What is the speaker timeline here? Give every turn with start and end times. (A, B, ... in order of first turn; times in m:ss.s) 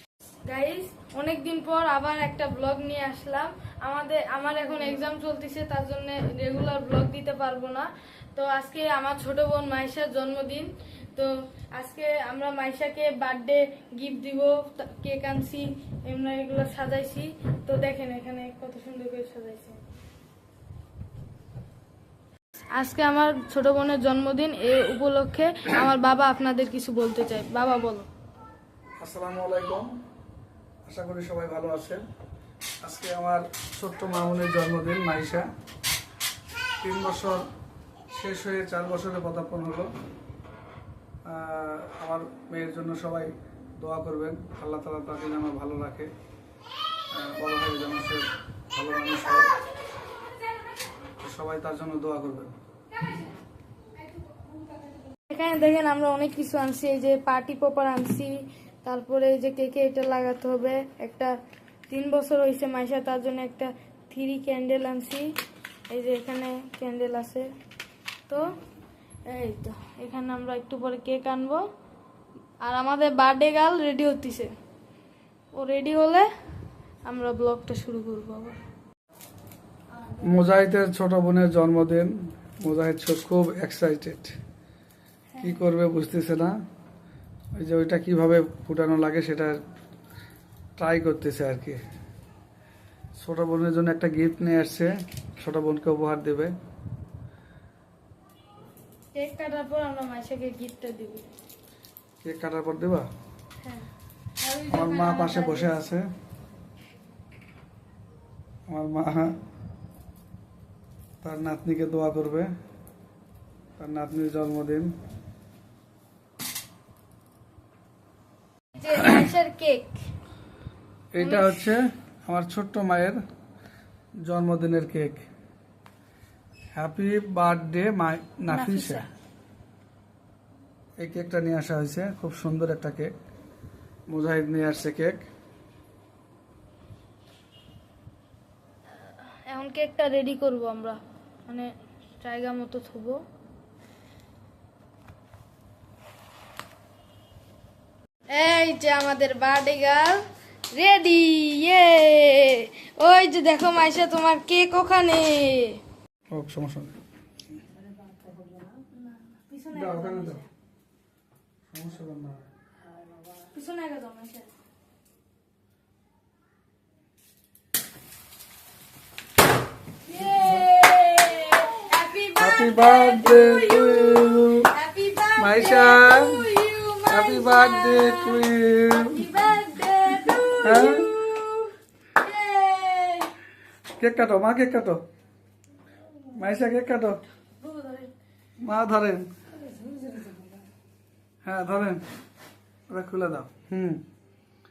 0:00.4-0:19.8 A
0:22.7-0:28.1 A
0:29.0-0:29.9 B
0:30.9-0:32.0 B
0:32.8-0:35.5 B
0:36.8-0:37.5 B
0:38.1-0:39.9 B
0:41.2-0:46.1 B
0:47.1-0:49.5 B
0:51.2-0:52.5 B
0:55.1-1:01.4 A
1:01.9-1:05.3 A
1:05.9-1:07.5 A
1:08.3-1:08.6 A
1:09.3-1:11.6 A
1:12.6-1:14.5 A
1:15.5-1:16.3 A
1:17.0-1:18.6 A
1:20.2-1:24.4 B
1:25.3-1:25.6 A
1:25.4-1:26.6 B
1:27.5-1:29.6 B
1:30.8-1:31.8 B
1:33.2-1:36.5 B
1:39.1-1:41.2 A
1:42.2-1:43.1 B
1:43.6-1:43.8 A
1:44.4-1:45.8 A
1:44.7-1:46.1 B
1:48.7-1:49.4 B
1:51.2-1:52.5 B
1:53.8-1:54.9 B
1:58.8-2:00.0 A
2:01.1-2:03.2 B
2:01.2-2:01.6 A
2:04.2-2:05.2 B
2:06.8-2:09.0 B
2:08.5-2:09.1 A
2:11.0-2:13.1 B
2:14.1-2:15.2 B
2:18.9-2:23.2 A
2:28.3-2:35.8 A
2:36.3-2:37.0 B
2:38.3-2:40.5 A
2:39.7-2:40.4 B
2:41.7-2:42.5 B
2:43.4-2:44.5 A
2:50.0-3:03.3 A
2:50.4-2:50.6 B
2:52.4-2:54.7 B
2:55.4-2:56.4 B
2:57.1-2:59.2 B
3:00.6-3:01.1 B
3:04.0-3:05.0 B
3:06.3-3:07.2 B
3:07.5-3:08.1 A
3:08.6-3:09.3 B
3:09.7-3:10.4 A
3:11.4-3:12.0 B
3:12.9-3:14.0 B